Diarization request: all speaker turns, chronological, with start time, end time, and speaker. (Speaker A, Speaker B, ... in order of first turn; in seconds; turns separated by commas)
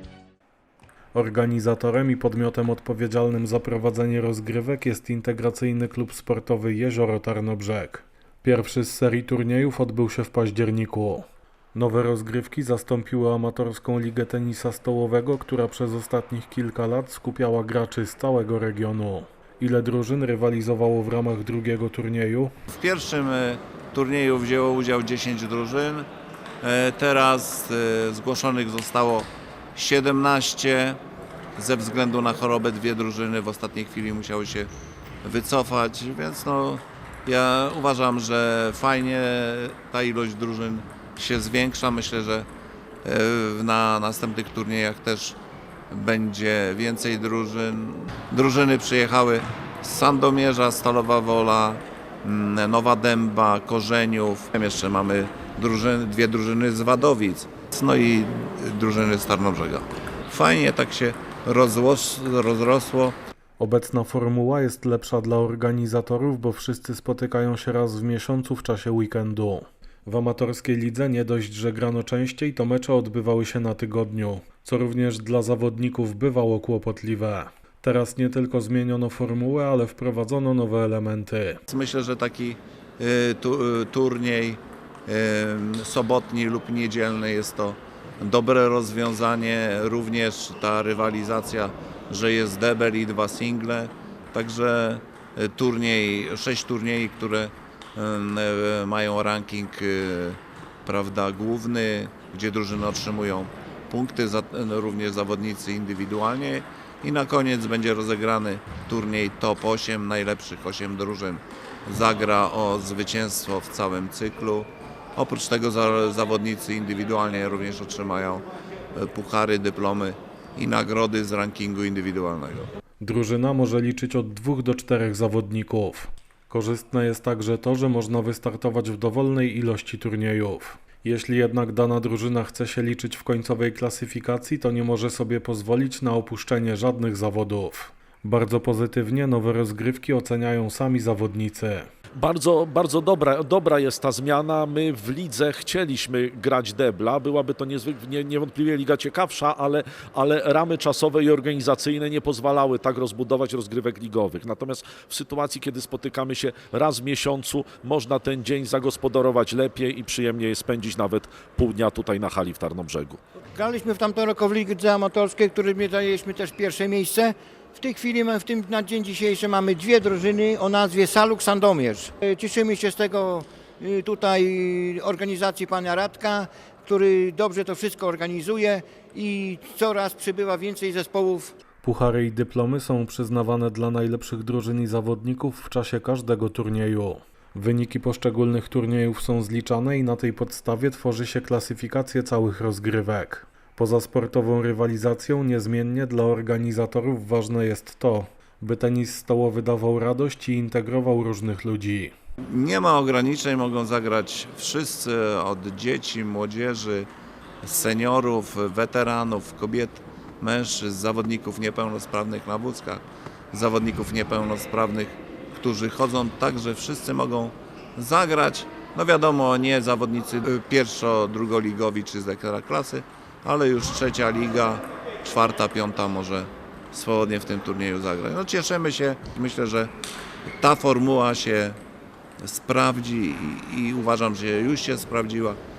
Speaker A: 1.1-22.5, Speaker B: 22.7-26.1, Speaker B: 26.6-31.0, Speaker B: 31.6-34.7, Speaker B: 35.2-42.5, Speaker B: 43.0-45.4, Speaker B: 45.9-63.2, Speaker A: 63.6-81.6, Speaker B: 81.7-122.7, Speaker A: 123.0-141.9, Speaker C: 142.2-163.2, Speaker D: 163.5-181.5, Speaker A: 181.8-202.1, Speaker B: 202.5-207.1, Speaker B: 207.6-229.9, Speaker B: 230.5-231.8, Speaker B: 232.4-235.6